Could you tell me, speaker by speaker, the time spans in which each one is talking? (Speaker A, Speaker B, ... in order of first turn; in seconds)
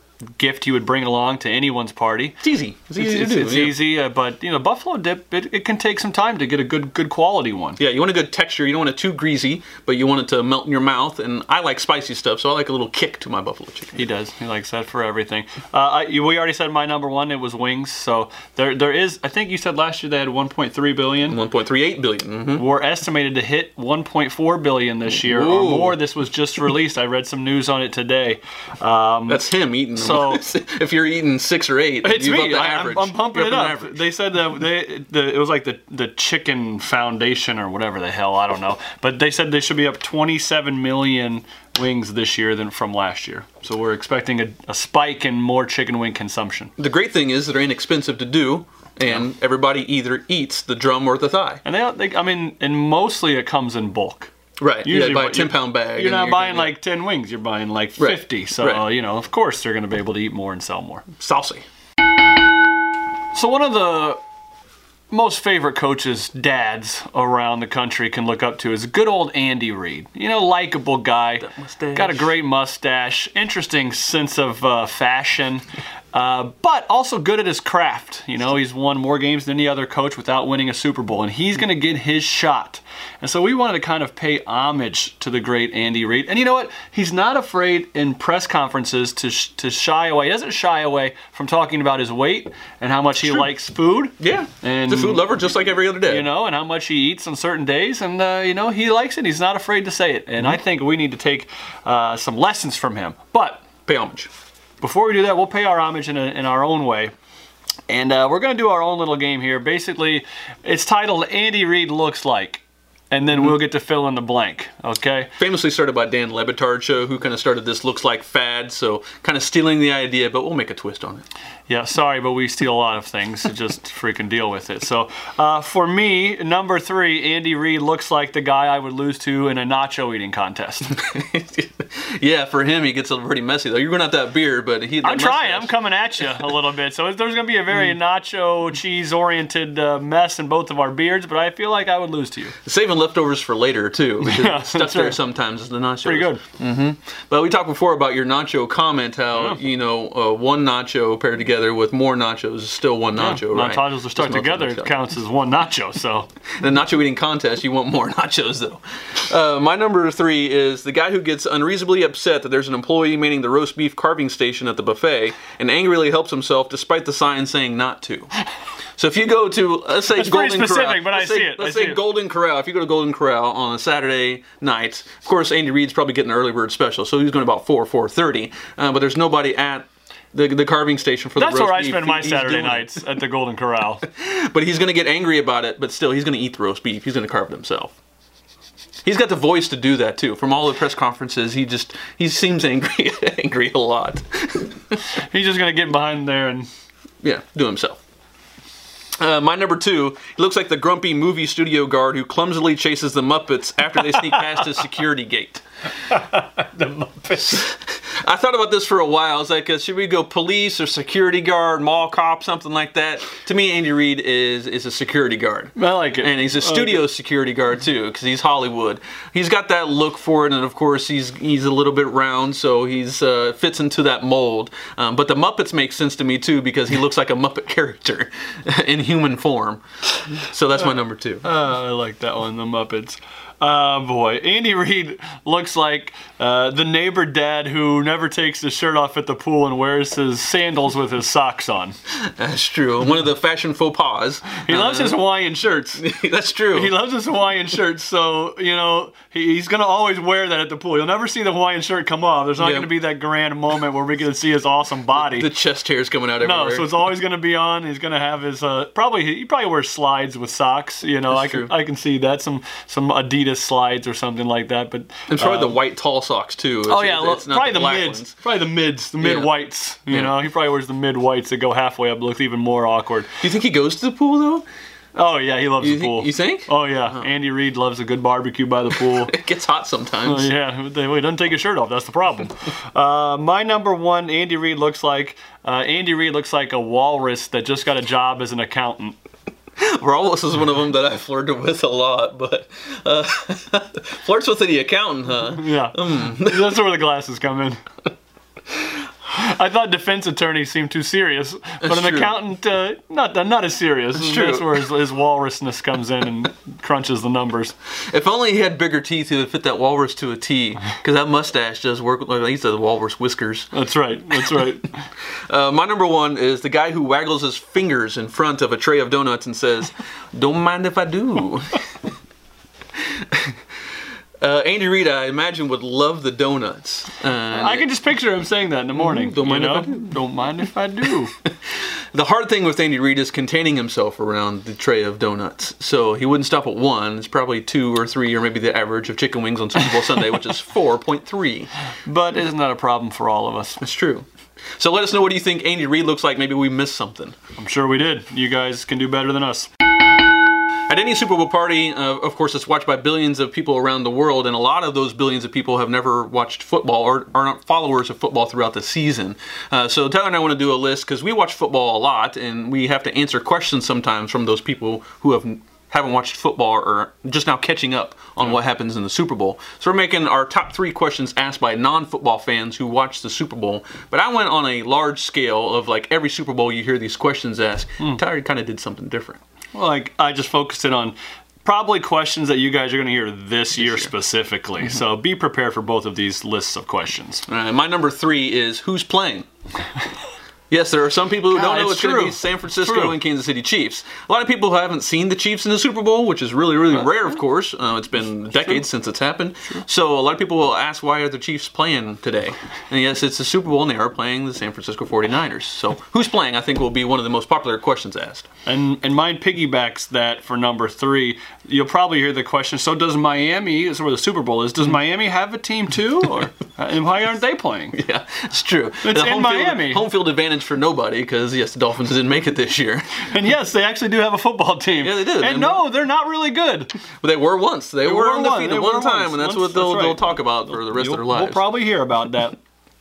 Speaker A: 0.3-2.4, 3.0-7.8, 13.9-21.4, 22.6-30.4, 32.0-46.7, 51.6-54.3, 54.8-61.1, 63.3-64.2, 65.1-95.3, 96.0-103.6, 104.8-107.1, 107.9-115.3, 121.7-131.0, 135.0-142.6, 144.2-145.2, 146.0-146.4, 149.3-149.6, 153.1-156.3, 170.1-172.0, 181.3-184.0, 195.3-196.7, 204.0-204.8, 206.1-207.6, 215.8-217.1, 230.8-241.9, 244.7-246.0, 246.7-255.5, 256.4-265.8, 266.9-273.3, 275.1-279.3, 280.2-289.2, 295.4-297.8, 299.2-307.7, 313.7-314.9, 327.5-331.3, 342.1-343.8, 347.6-349.7, 379.7-387.4, 391.5-393.2, 408.7-418.0, 419.0-420.0, 423.2-426.9, 428.0-432.6
Speaker B: 2.4-3.8, 7.8-14.0, 21.2-22.6, 25.1-26.0, 29.3-34.0, 46.8-51.6, 54.6-56.8, 58.0-58.8, 61.2-61.6, 71.4-72.3, 93.2-93.5, 94.2-96.3, 103.8-104.3, 115.4-121.2, 130.9-136.3, 142.6-155.1, 156.6-168.3, 169.0-183.1, 184.1-187.9, 189.0-195.0, 197.2-198.0, 199.2-205.6, 207.3-229.8, 230.5-231.4, 242.3-245.2, 245.9-246.9, 252.6-252.9, 255.1-256.9, 261.3-261.7, 265.3-268.4, 269.2-269.6, 270.1-270.4, 273.4-274.7, 275.8-277.3, 279.0-280.5, 289.8-296.8, 301.8-302.4, 304.1-304.9, 308.1-313.7, 314.3-314.7, 315.5-321.8, 323.3-323.6, 324.4-327.9, 328.9-330.4, 332.1-341.7, 343.8-344.2, 344.8-347.3, 350.9-379.4, 383.8-384.1, 387.5-389.5, 390.7-408.4, 417.9-423.1, 425.0-425.9, 427.2-431.7